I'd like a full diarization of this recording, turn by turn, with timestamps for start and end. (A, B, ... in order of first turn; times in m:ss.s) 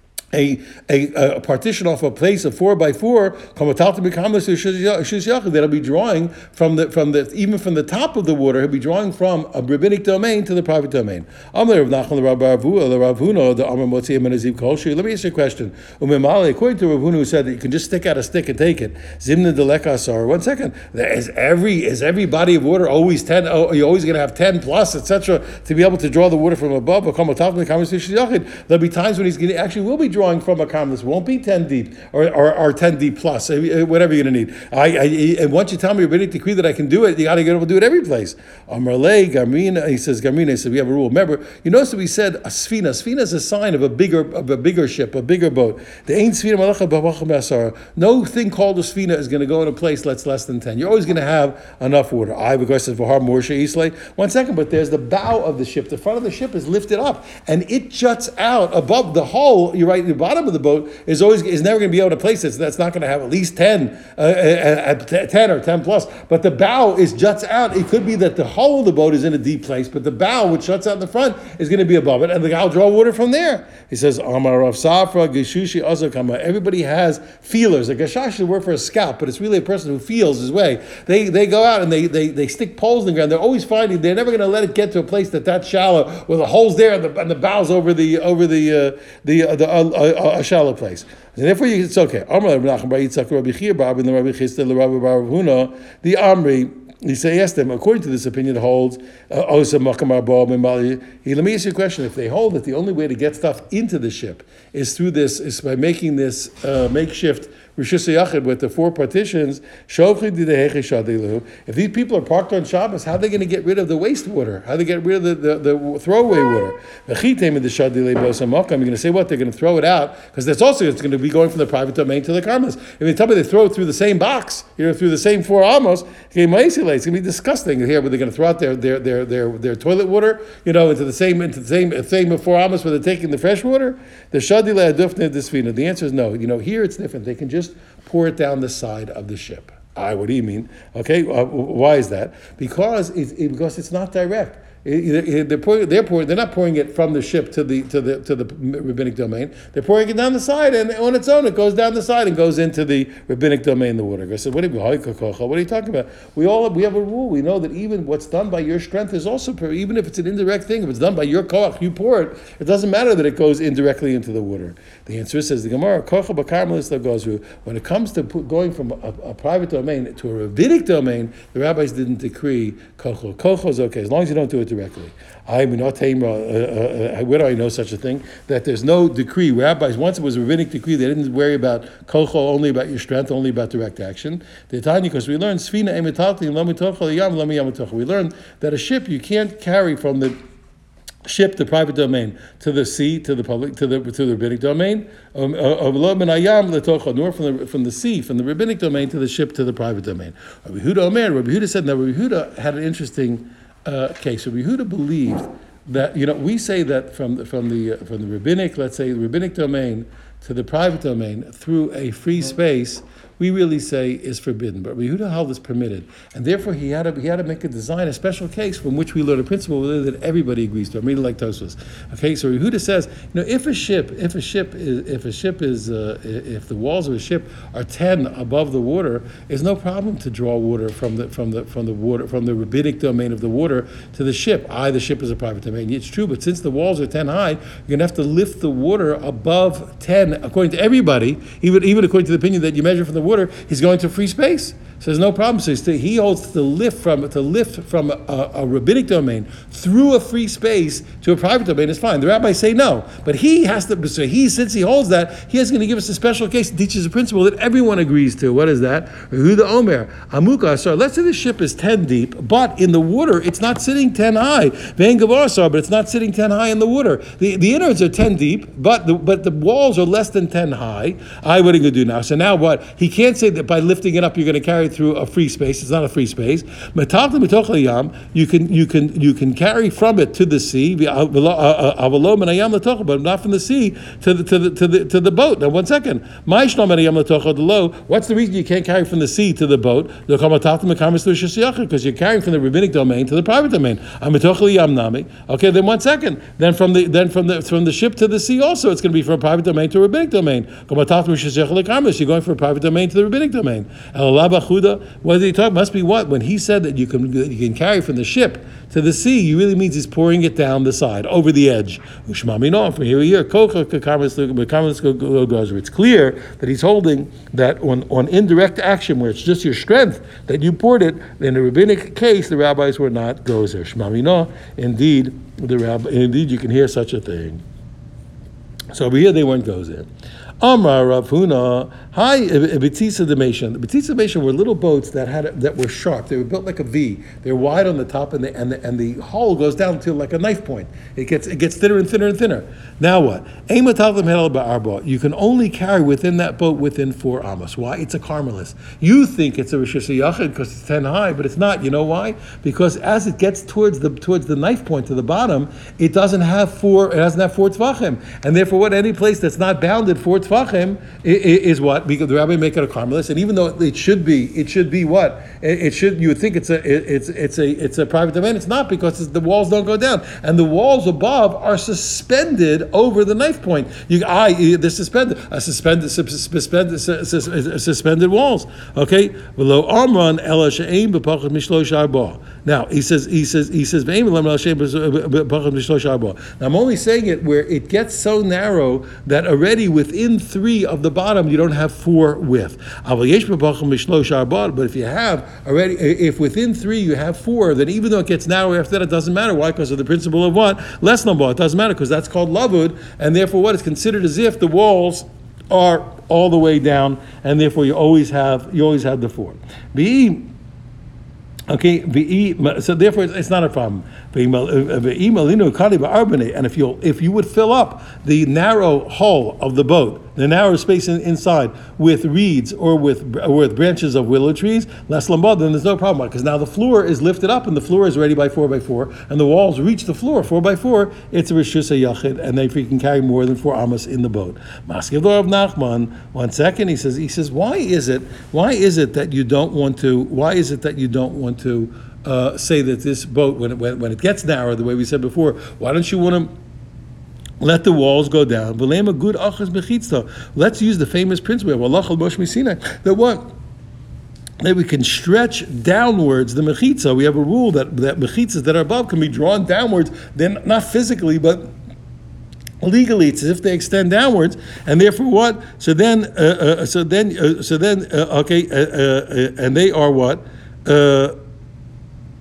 0:00.3-3:10.4 A
3:11.2-5:27.6 A
5:28.9-5:30.1 A
5:30.6-6:50.5 A
6:51.7-7:26.5 A
7:27.6-7:33.5 A
7:34.6-7:41.7 A
7:42.8-7:51.4 A